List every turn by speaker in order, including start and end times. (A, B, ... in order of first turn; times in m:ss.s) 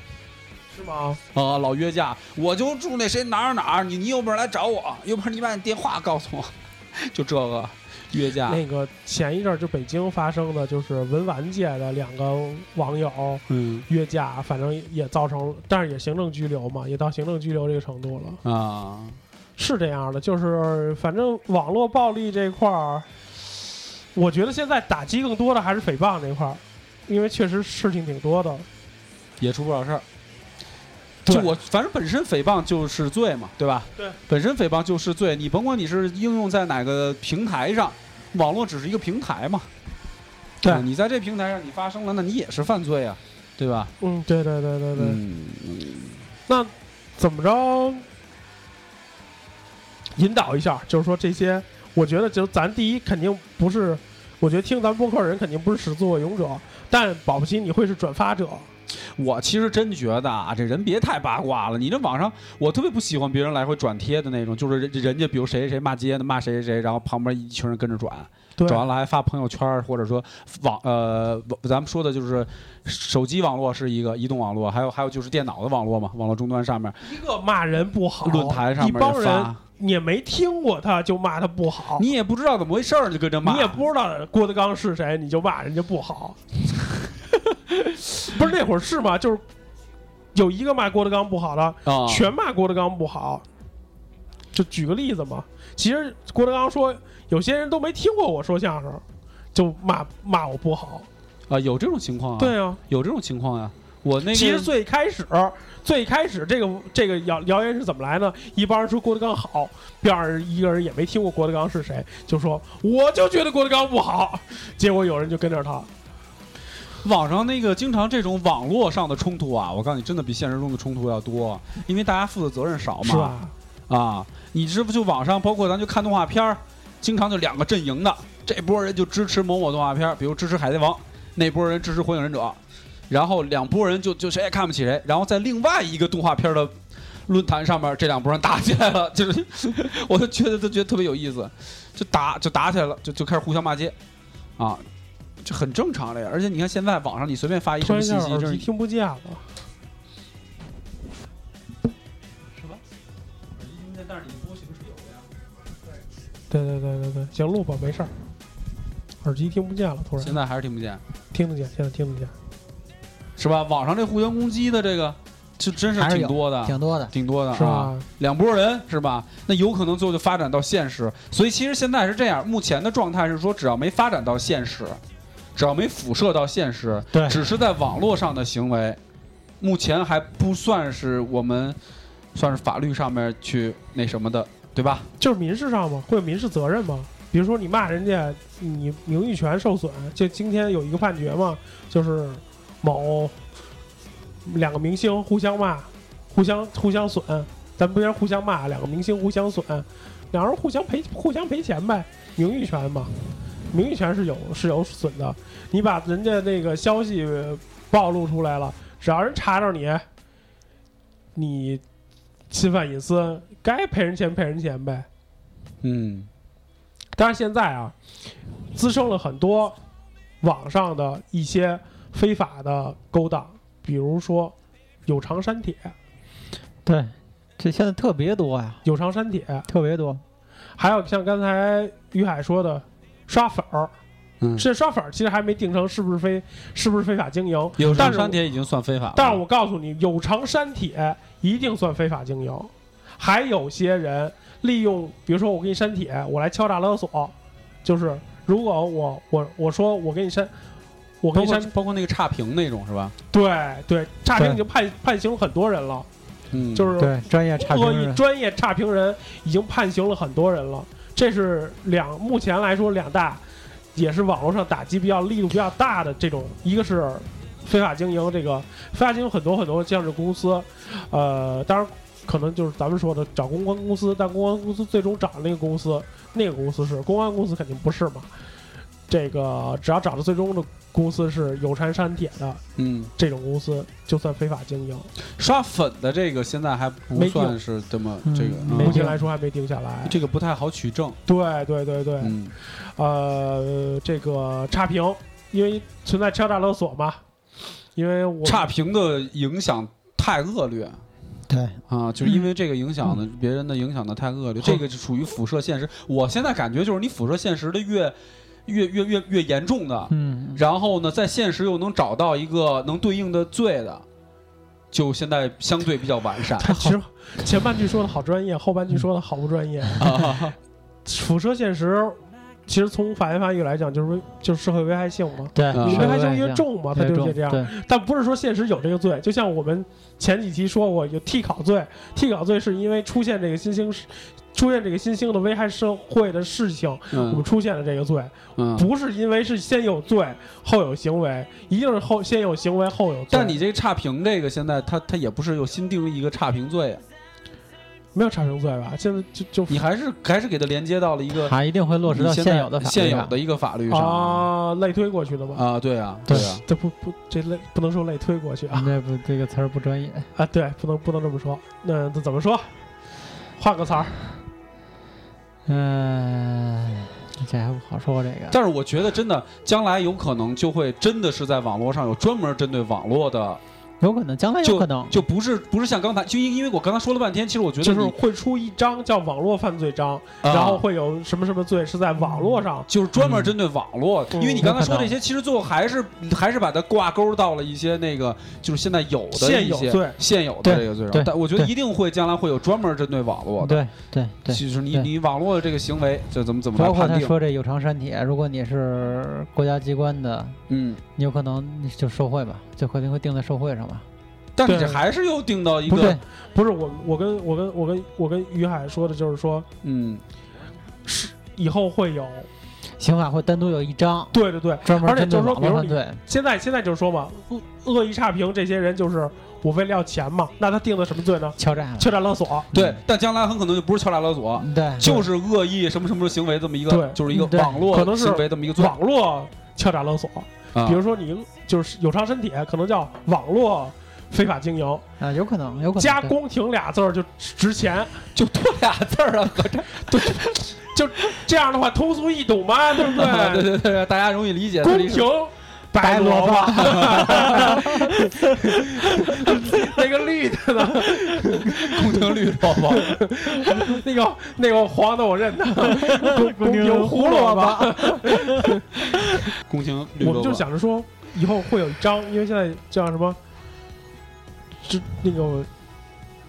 0:00.7-0:01.2 A
0:01.3-0:08.6 B
0:08.5-0:18.4 A
0:13.5-0:13.9 B
0:18.4-0:19.2 B
0:19.6-0:23.1 A
0:24.1-0:28.7 A
0:29.4-0:30.0 B
0:31.2-0:39.7 B
0:40.6-0:43.9 B
0:44.0-0:45.2 A
0:45.0-0:46.2 B
0:46.5-0:48.0 A
0:50.2-0:58.7 A
0:59.2-1:17.0 B
1:08.6-1:08.8 A
1:17.0-1:22.1 A
1:18.2-1:19.6 B
1:22.0-1:23.8 B
1:23.4-1:26.4 A
1:28.0-1:29.4 A
1:30.3-1:33.4 A
1:31.8-1:32.3 B
1:34.5-1:39.0 A
1:39.5-1:41.1 A
1:41.5-1:44.7 B
1:42.4-1:42.8 A
1:44.3-1:55.9 A
1:57.0-2:03.4 B
2:03.0-2:03.5 A
2:03.9-2:12.6 B
2:13.1-2:16.8 B
2:17.3-2:23.9 B
2:24.6-2:24.8 B
2:25.4-2:28.6 B
2:27.8-2:29.4 A
2:33.6-2:35.3 B
2:36.5-2:38.1 A
2:39.2-2:40.3 A
2:40.2-2:41.0 B
2:41.3-2:42.3 A
2:43.4-2:55.0 B
2:46.0-2:47.1 C
2:47.5-2:48.0 A
2:55.6-2:59.0 B
2:57.1-2:57.4 C
2:59.6-3:01.8 B
3:02.4-3:05.1 B
3:05.2-3:13.4 A
3:14.4-3:23.1 A
3:23.7-3:30.0 A
3:31.4-3:31.8 A
3:32.5-3:35.1 A
3:35.8-3:36.3 B
3:37.2-3:37.9 A
3:38.8-3:39.8 A
3:40.4-3:44.5 A
3:45.1-3:45.9 A
3:46.8-3:48.8 C
3:48.8-3:49.6 A
3:49.7-3:50.2 C
3:50.8-3:53.9 A
3:54.4-3:54.6 B
3:54.6-3:58.4 A
3:57.8-3:59.4 B
3:59.1-4:10.5 A
4:11.2-4:11.7 A
4:11.3-4:13.1 B
4:13.3-4:16.1 A
4:16.5-4:16.9 B
4:16.7-4:23.4 A
4:17.0-4:18.2 C
4:23.9-4:38.3 A
4:39.1-4:42.6 A
4:42.8-4:43.1 B
4:43.2-4:45.1 A
4:45.4-4:49.1 B
4:47.1-4:47.6 A
4:48.2-4:49.2 C
4:48.8-4:50.2 A
4:50.1-4:51.2 B
4:51.3-4:57.2 A
4:52.2-4:52.6 B
4:57.9-4:58.6 A
4:58.4-5:01.0 B
5:01.5-5:02.4 C
5:01.9-5:08.1 B
5:08.7-5:14.0 B
5:10.1-5:10.6 C
5:14.9-5:16.9 B
5:16.6-5:20.2 A
5:20.0-5:20.6 B
5:21.1-5:43.6 A
5:25.6-5:27.7 C
5:25.7-5:26.1 B
5:37.1-5:37.4 B
5:38.6-5:38.9 B
5:43.3-5:47.0 B
5:48.1-5:49.8 A
5:49.7-5:51.6 B
5:51.4-5:53.3 C
5:52.1-5:54.5 B
5:53.9-5:55.6 A
5:55.6-5:56.6 B
5:56.3-5:58.9 A
5:58.7-6:00.3 C
6:00.4-6:02.7 A
6:03.6-6:04.1 A
6:05.6-6:08.6 C
6:08.5-6:13.6 B
6:14.0-6:15.2 C
6:14.6-6:18.2 B
6:17.8-6:22.9 A
6:20.4-6:20.8 B
6:22.9-6:33.8 B
6:23.2-6:23.5 C
6:24.3-6:24.6 A
6:24.6-6:25.1 C
6:29.3-6:30.2 A
6:30.6-6:31.7 C
6:33.6-6:35.1 C
6:34.5-6:37.4 B
6:36.8-6:40.6 C
6:40.7-6:41.0 B
6:41.2-6:44.1 C
6:44.6-6:46.2 B
6:44.6-6:45.0 A
6:45.9-6:46.2 C
6:46.5-6:49.7 A
6:49.8-6:50.2 B
6:51.0-6:52.5 A
6:53.0-6:56.2 C
6:54.3-7:02.7 A
7:01.6-7:02.1 C
7:02.7-7:03.0 C
7:02.7-7:09.0 B
7:04.6-7:05.2 C
7:06.9-7:07.2 A
7:07.3-7:07.9 C
7:07.9-7:15.0 A
7:10.8-7:11.0 B
7:15.2-7:16.4 C
7:16.0-7:18.2 A
7:18.4-7:20.7 B
7:20.1-7:23.7 A
7:23.1-7:25.3 B
7:24.8-7:32.0 A
7:26.0-7:28.0 B
7:26.0-7:28.1 C
7:31.5-7:33.2 B
7:32.9-7:38.8 A
7:35.9-7:38.6 C
7:39.6-7:40.6 B
7:40.2-7:43.4 A
7:44.8-7:45.7 A